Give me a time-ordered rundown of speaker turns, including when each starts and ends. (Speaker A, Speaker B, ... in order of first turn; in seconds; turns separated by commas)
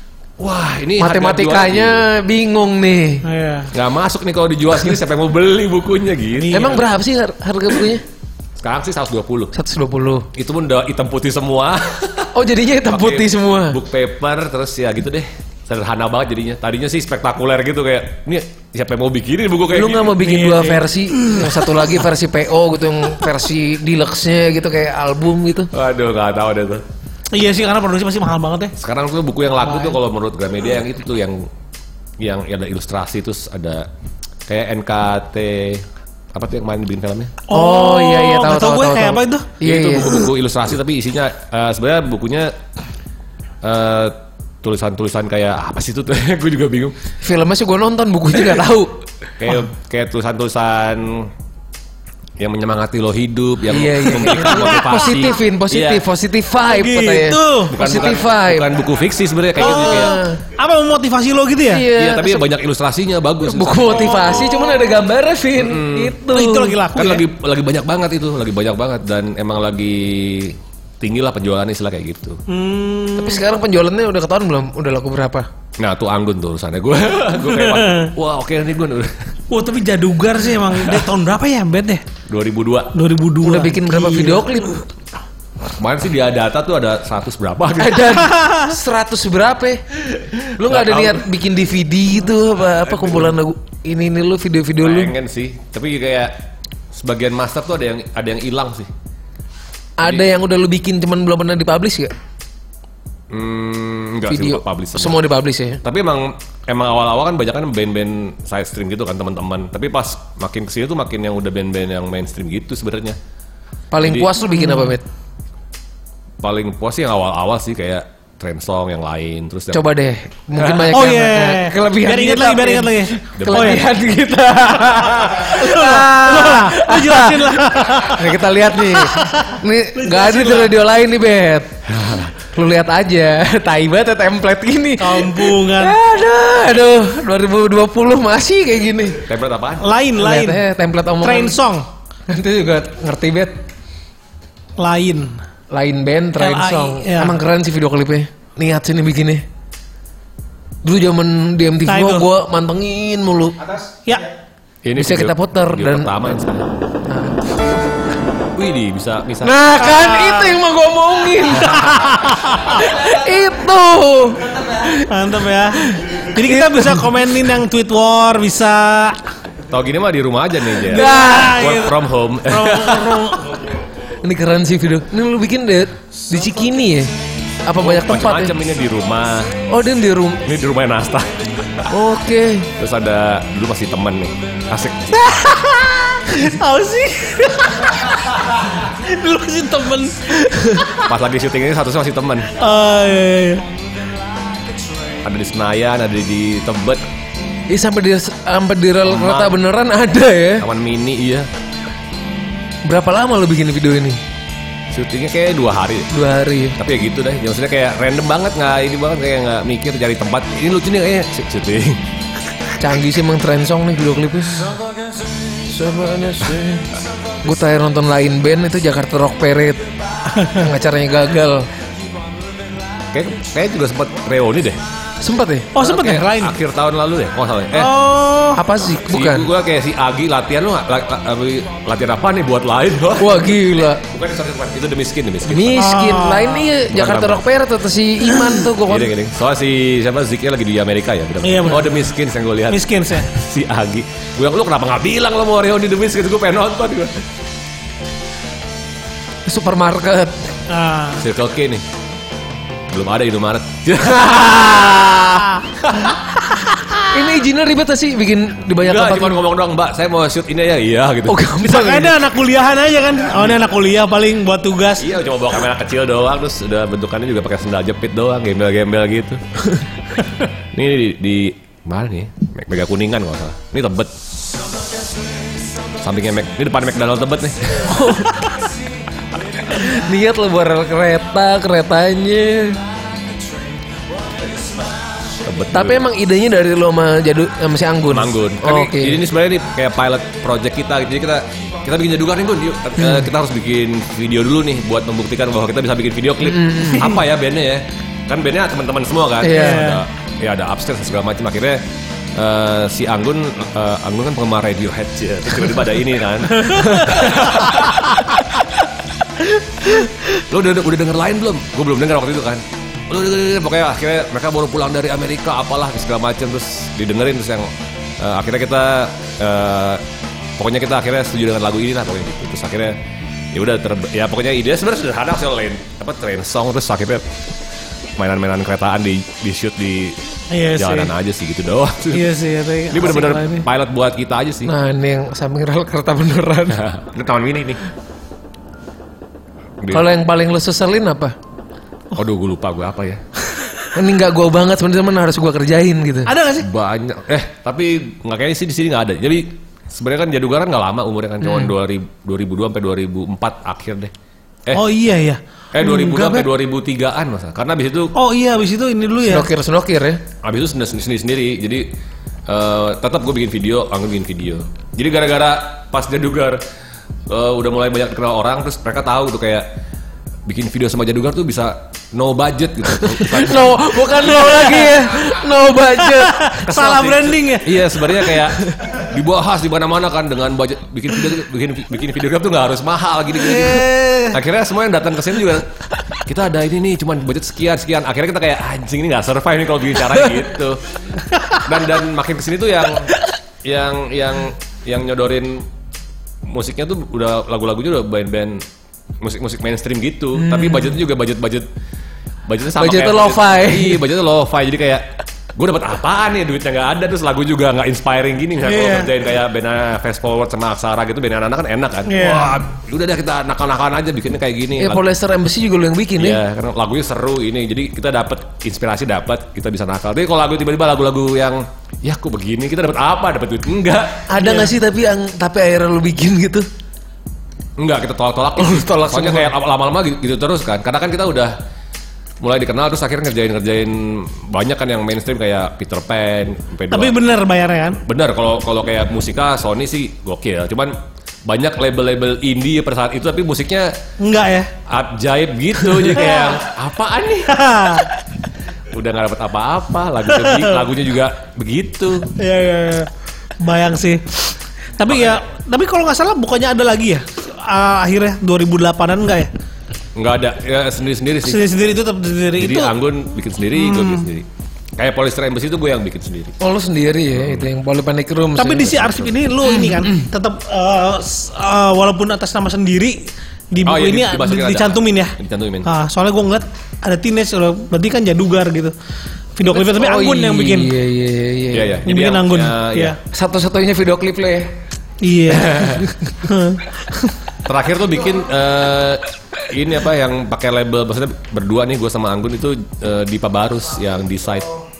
Speaker A: 0.4-2.0, Speaker B: 1.0-3.2, Speaker C: 3.2-3.7, Speaker A: 3.7-6.7, Speaker C: 6.4-6.8, Speaker B: 6.5-8.0, Speaker A: 8.6-9.5, Speaker B: 9.5-10.3, Speaker A: 10.3-12.3, Speaker B: 12.3-13.8, Speaker A: 12.9-20.1, Speaker B: 19.7-25.7, Speaker C: 20.2-21.5, Speaker A: 25.7-26.8, Speaker C: 27.3-28.7, Speaker A: 28.8-31.5, Speaker A: 32.2-33.9, Speaker A: 34.5-37.3, Speaker C: 37.5-39.5, Speaker B: 37.5-40.3, Speaker A: 39.6-42.5, Speaker A: 43.6-46.9, Speaker B: 47.2-49.0, Speaker A: 49.4-51.3, Speaker A: 52.4-56.0, Speaker B: 53.7-58.7, Speaker C: 56.7-57.7, Speaker A: 57.7-60.2, Speaker B: 59.6-60.4, Speaker C: 59.6-61.9, Speaker B: 61.7-62.5, Speaker A: 61.9-64.8, Speaker B: 63.4-66.8, Speaker A: 65.5-66.2, Speaker C: 66.3-67.2, Speaker A: 66.9-72.4, Speaker C: 72.5-73.4, Speaker B: 73.2-75.5, Speaker A: 75.8-79.1, Speaker C: 77.5-78.1, Speaker C: 79.5-82.0, Speaker A: 82.3-82.9, Speaker C: 82.9-84.6, Speaker B: 83.4-84.8, Speaker A: 85.8-88.2, Speaker B: 87.7-89.8, Speaker C: 88.2-88.7, Speaker A: 90.1-91.3, Speaker B: 90.6-95.1, Speaker A: 92.7-93.3, Speaker A: 94.8-96.3, Speaker A: 96.9-98.9, Speaker B: 100.0-102.1, Speaker A: 103.3-105.2, Speaker B: 104.3-105.8, Speaker A: 105.8-113.2, Speaker B: 113.9-115.0, Speaker A: 114.0-114.3, Speaker A: 116.4-119.9, Speaker B: 119.7-131.7, Speaker A: 120.5-120.9, Speaker C: 120.9-123.8, Speaker A: 123.4-123.9, Speaker C: 125.4-128.2, Speaker C: 128.9-130.8, Speaker A: 131.9-132.3, Speaker B: 132.4-139.2, Speaker C: 135.0-135.9, Speaker A: 139.2-139.8, Speaker C: 139.8-140.6, Speaker B: 140.2-141.6, Speaker C: 141.2-141.8, Speaker B: 142.3-143.5, Speaker C: 144.8-145.4, Speaker B: 145.7-149.4, Speaker C: 146.4-147.4, Speaker B: 150.8-153.6, Speaker C: 151.8-152.3, Speaker A: 154.8-156.7, Speaker B: 154.9-156.3, Speaker B: 157.0-157.8, Speaker A: 158.5-159.5, Speaker B: 159.4-165.1, Speaker C: 159.8-160.5, Speaker C: 161.7-162.8, Speaker C: 165.1-169.2, Speaker B: 165.7-167.0, Speaker A: 169.7-173.3, Speaker B: 170.8-171.6, Speaker C: 170.9-171.9, Speaker C: 172.5-173.3, Speaker B: 172.8-173.4, Speaker B: 174.2-177.1, Speaker B: 177.6-178.6, Speaker A: 177.8-179.5, Speaker B: 179.7-180.4, Speaker A: 180.4-181.3, Speaker B: 181.9-182.7, Speaker A: 182.8-185.4, Speaker C: 185.3-191.1, Speaker A: 191.0-192.5, Speaker C: 192.5-193.6, Speaker A: 195.2-197.0, Speaker B: 197.7-200.7, Speaker A: 199.0-199.5, Speaker A: 200.6-201.5, Speaker B: 202.8-204.2, Speaker A: 204.9-206.1, Speaker B: 206.1-206.8, Speaker A: 206.8-212.0, Speaker B: 212.8-214.7, Speaker B: 215.6-216.9, Speaker B: 217.4-219.9, Speaker C: 220.3-220.7, Speaker B: 220.5-221.7, Speaker A: 223.1-224.8, Speaker B: 225.2-226.0, Speaker C: 225.7-226.5, Speaker A: 225.9-227.9, Speaker C: 227.7-228.6, Speaker B: 228.5-229.5, Speaker A: 229.1-235.8, Speaker B: 233.2-234.0, Speaker B: 235.5-239.1, Speaker C: 235.8-236.7, Speaker A: 236.9-237.4, Speaker A: 238.8-247.2, Speaker C: 241.4-241.9, Speaker C: 242.7-243.3, Speaker B: 249.4-250.5, Speaker C: 250.7-251.2, Speaker A: 251.2-251.8, Speaker A: 252.9-256.9, Speaker B: 257.1-259.4, Speaker A: 258.8-261.5, Speaker B: 261.3-262.1, Speaker C: 261.6-265.1, Speaker A: 265.0-269.4, Speaker A: 270.4-274.1, Speaker A: 276.0-278.2, Speaker B: 277.8-278.4, Speaker B: 279.6-282.8, Speaker A: 285.4-286.0, Speaker B: 285.7-289.2, Speaker A: 288.1-301.8, Speaker B: 296.4-297.2, Speaker B: 299.4-299.9, Speaker C: 299.5-300.0, Speaker A: 302.3-308.7, Speaker C: 306.6-307.3, Speaker A: 309.8-317.7, Speaker A: 318.2-320.0, Speaker A: 320.6-323.0, Speaker A: 323.5-327.2, Speaker A: 328.2-330.2, Speaker C: 330.5-331.1, Speaker A: 330.8-332.3, Speaker C: 332.1-333.7, Speaker A: 332.9-334.7, Speaker B: 334.6-336.8, Speaker A: 336.7-337.8, Speaker B: 339.9-341.4, Speaker A: 342.1-343.2, Speaker B: 343.9-346.3, Speaker C: 346.2-346.7, Speaker A: 346.6-354.1, Speaker C: 354.7-356.5, Speaker A: 355.7-358.1, Speaker C: 358.1-359.5, Speaker B: 359.2-360.2, Speaker A: 360.4-361.9, Speaker A: 362.5-366.6, Speaker A: 367.3-369.6, Speaker A: 370.4-375.0, Speaker B: 373.1-376.5, Speaker C: 376.0-377.7, Speaker A: 376.6-390.8, Speaker C: 383.4-384.4, Speaker A: 391.5-395.6, Speaker A: 396.4-398.6, Speaker A: 399.2-401.7, Speaker B: 400.3-401.0, Speaker A: 402.5-415.0, Speaker B: 402.8-404.0, Speaker C: 408.6-409.1, Speaker C: 412.1-412.6, Speaker B: 414.8-416.4, Speaker A: 416.2-424.3, Speaker B: 424.3-426.6, Speaker A: 427.8-431.6, Speaker B: 428.6-429.5, Speaker A: 432.4-437.1, Speaker C: 436.9-438.0, Speaker A: 438.0-443.9, Speaker C: 444.2-444.7, Speaker A: 444.9-447.6, Speaker C: 446.0-446.5, Speaker C: 447.5-448.1, Speaker A: 448.9-452.3, Speaker C: 450.4-450.7, Speaker C: 452.4-459.5, Speaker A: 455.1-455.4, Speaker A: 460.1-461.7, Speaker C: 461.4-462.9, Speaker A: 462.6-464.4, Speaker C: 463.8-464.2, Speaker A: 465.0-466.6, Speaker B: 466.6-470.3, Speaker A: 467.3-467.7, Speaker C: 468.6-478.9, Speaker A: 473.8-475.9, Speaker C: 479.6-480.9, Speaker B: 479.6-482.0, Speaker A: 481.7-483.2, Speaker C: 482.1-483.1, Speaker B: 483.3-484.7, Speaker C: 485.2-487.3, Speaker A: 485.7-485.9, Speaker B: 485.8-486.1, Speaker A: 487.6-494.7